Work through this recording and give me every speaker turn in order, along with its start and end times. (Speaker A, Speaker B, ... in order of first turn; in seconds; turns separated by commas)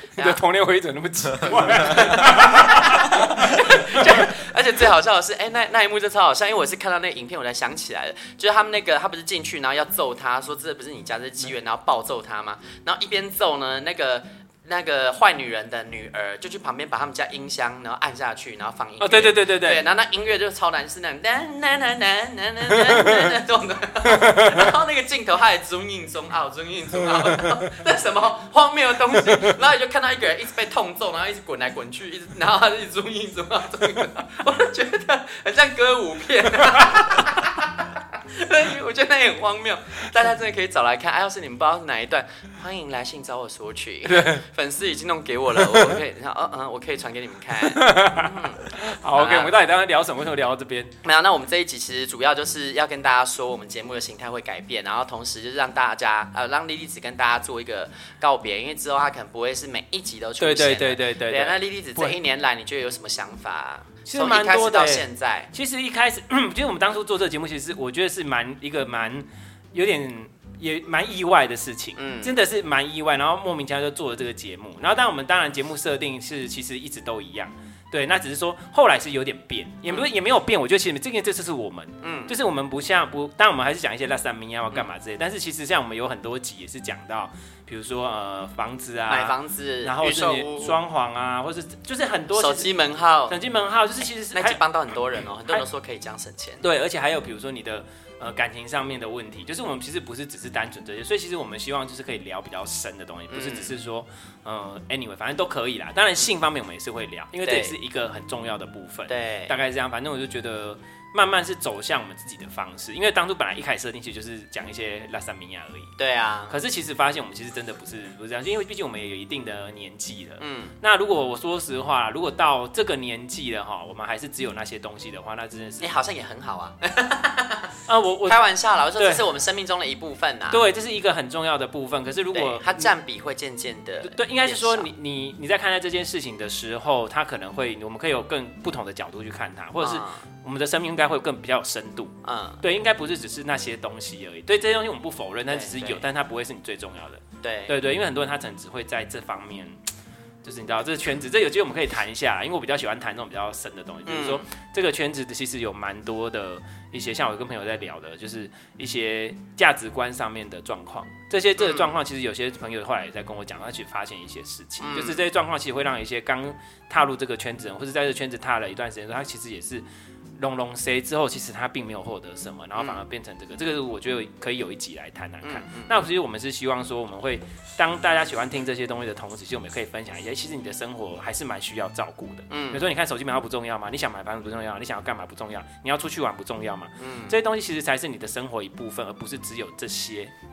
Speaker A: 0.2-4.3, Speaker B: 1.6-49.5, Speaker A: 19.0-19.8, Speaker A: 22.7-23.3, Speaker A: 24.1-24.7, Speaker A: 44.0-44.4, Speaker A: 45.6-45.9, Speaker A: 47.6-50.9, Speaker B: 51.0-65.5, Speaker A: 60.4-62.2, Speaker A: 64.0-92.7, Speaker B: 72.0-72.3, Speaker B: 82.0-82.3, Speaker B: 89.1-90.8, Speaker B: 92.3-93.3, Speaker A: 93.3-94.6, Speaker B: 94.3-96.6, Speaker A: 96.6-115.9, Speaker B: 103.3-103.7, Speaker B: 107.4-107.7, Speaker B: 109.1-109.5, Speaker B: 116.0-116.5, Speaker A: 116.5-125.9, Speaker B: 120.4-120.7, Speaker B: 125.8-127.7, Speaker A: 127.9-128.4, Speaker B: 128.2-130.6, Speaker A: 128.9-129.2, Speaker A: 130.5-132.9, Speaker B: 132.3-134.9, Speaker A: 134.0-149.8, Speaker B: 139.8-140.2, Speaker B: 142.2-142.6, Speaker B: 145.5-146.0, Speaker B: 147.4-147.7, Speaker A: 150.4-169.8, Speaker B: 154.1-154.4, Speaker B: 161.6-161.9, Speaker B: 164.8-165.2, Speaker A: 170.4-190.3, Speaker B: 175.4-175.9, Speaker B: 182.5-182.8, Speaker B: 187.0-187.3